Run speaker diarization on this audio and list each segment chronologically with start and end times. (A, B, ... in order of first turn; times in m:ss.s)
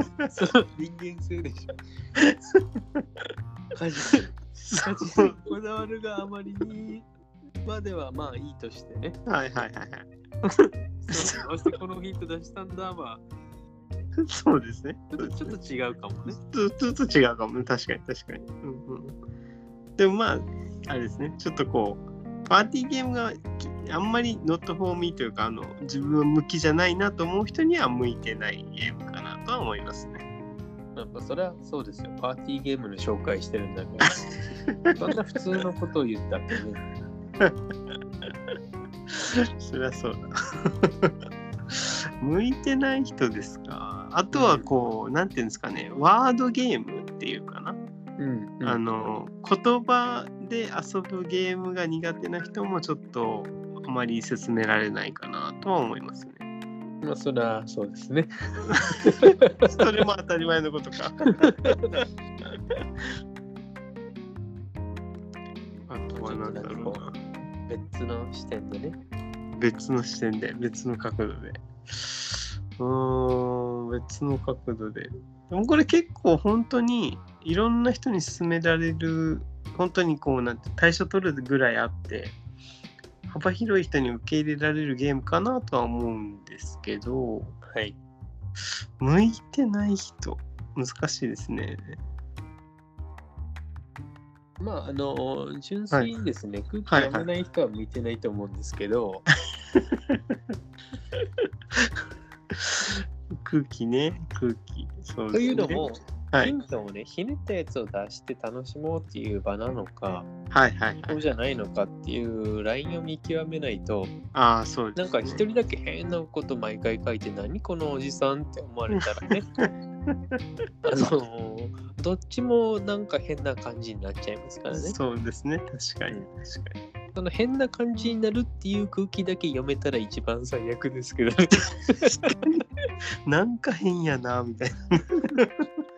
0:00.3-0:01.7 A
0:02.2-0:03.2 B
0:03.7-0:07.1 A
0:04.6-0:05.3 B
0:07.6-0:09.2 A
0:09.2-0:11.4 B
0:11.1-0:13.2 A
0:14.2-0:15.5 B
0:15.1-0:16.4 A
0:16.3-0:19.2 B
0:20.0-0:30.2 B
0:31.0-0:34.2 A
0:35.0-0:36.8 A
0:39.1-0:41.1 B
0:41.7-0:47.8 B
0:44.3-0:44.7 A
0:48.2-0:48.8 A
0:48.6-0:56.4 B
0:57.0-0:59.7 A
0:59.6-1:01.8 B
1:01.4-1:02.0 A
1:05.9-1:07.1 B
1:06.1-1:07.0 A
1:07.7-1:09.0 A
1:09.6-1:22.4 B
1:23.3-1:27.6 B
1:27.7-1:28.0 A
1:29.0-1:32.0 B
1:34.6-1:39.2 A
1:36.9-1:37.3 B
1:39.7-1:40.2 B
1:42.5-1:46.5 B
1:45.3-1:50.3 A
1:50.5-1:51.2 B
1:51.1-1:54.1 A
1:54.3-1:55.4 B
1:55.0-1:59.4 A
2:00.8-2:05.0 A
2:04.7-2:06.8 B
2:07.1-2:12.5 A
2:13.2-2:15.5 B